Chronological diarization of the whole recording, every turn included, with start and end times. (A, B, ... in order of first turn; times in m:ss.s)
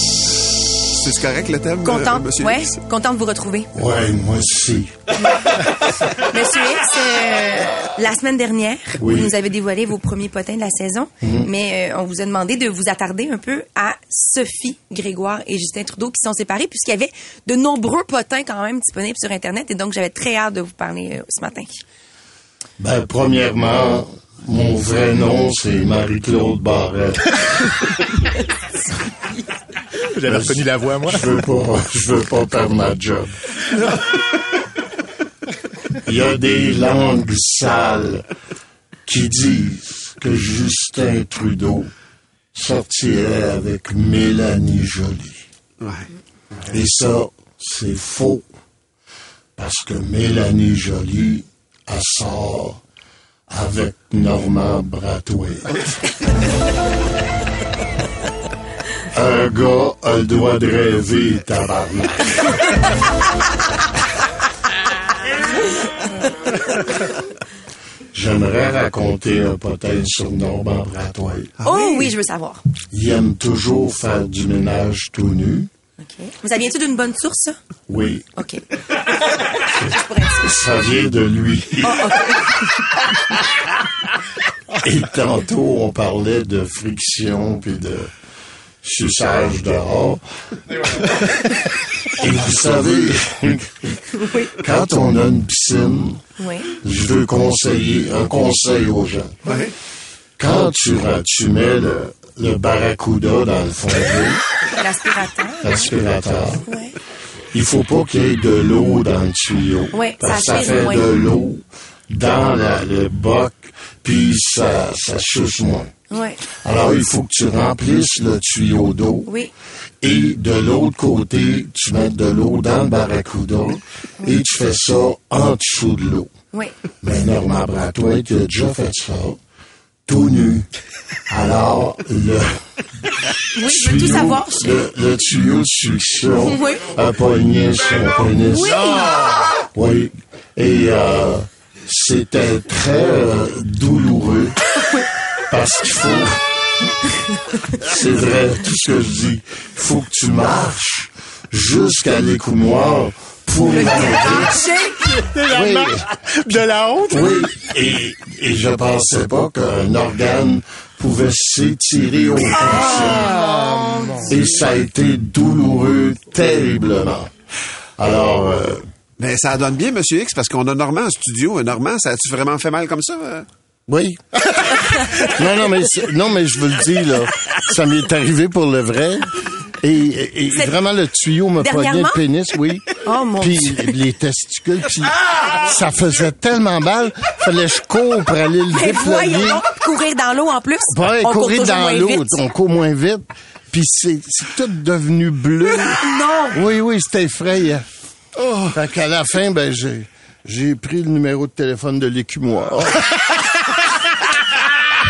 0:00.8-0:02.8 A
0:01.8-0:03.7 B
0:03.7-0:04.9 C
0:06.1-0:21.8 B
0:09.0-0:09.3 C
0:11.2-0:11.5 C
0:22.8-0:27.7 C
0:30.1-0:31.3 D
0:30.3-0:33.4 C
0:36.0-0:38.3 C
0:39.1-0:41.9 C
0:42.5-0:45.4 C
0:45.8-0:46.1 A
0:46.7-0:48.5 C
0:49.6-0:52.8 C
0:53.5-0:56.1 C
0:59.1-1:02.6 C
1:08.1-1:11.5 C
1:11.6-1:12.1 A
1:11.6-1:12.6 B
1:12.9-1:15.7 C
1:16.0-1:17.6 B
1:17.9-1:18.2 C
1:18.4-1:20.6 B
1:20.4-1:22.2 C
1:21.8-1:22.8 B
1:24.8-1:28.1 C
1:28.8-1:30.2 C
1:30.8-1:36.2 C
1:34.1-1:34.5 B
1:36.4-1:36.7 B
1:36.8-1:39.3 C
1:39.5-1:39.7 A
1:40.4-1:44.4 C
1:44.8-1:45.9 B
1:45.6-1:46.7 C
1:46.7-1:47.0 B
1:47.5-1:55.9 C
1:49.9-1:51.1 B
1:56.1-1:56.4 B
1:56.6-1:59.3 C
1:59.3-1:59.5 B
2:00.0-2:06.3 C
2:07.0-2:09.4 C
2:10.1-2:10.7 C
2:11.3-2:12.5 C
2:13.6-2:14.8 B
2:13.6-2:18.9 C
2:16.5-2:16.9 B
2:18.5-2:19.4 B
2:18.9-2:19.3 D
2:19.6-2:24.6 C
2:25.5-2:26.4 C
2:27.7-2:34.7 C
2:33.7-2:35.0 B
2:35.1-2:37.5 D
2:35.5-2:36.1 C
2:37.1-2:43.3 C
2:42.7-2:44.3 B
2:43.0-2:44.1 D
2:44.2-2:47.3 C
2:48.0-2:48.8 C
2:49.2-2:53.5 A
2:53.9-3:09.6 C
3:00.5-3:00.8 B
3:01.6-3:02.2 B
3:02.9-3:04.0 B
3:08.7-3:12.4 B
3:10.9-3:17.9 C
3:15.7-3:16.6 B
3:18.7-3:23.2 C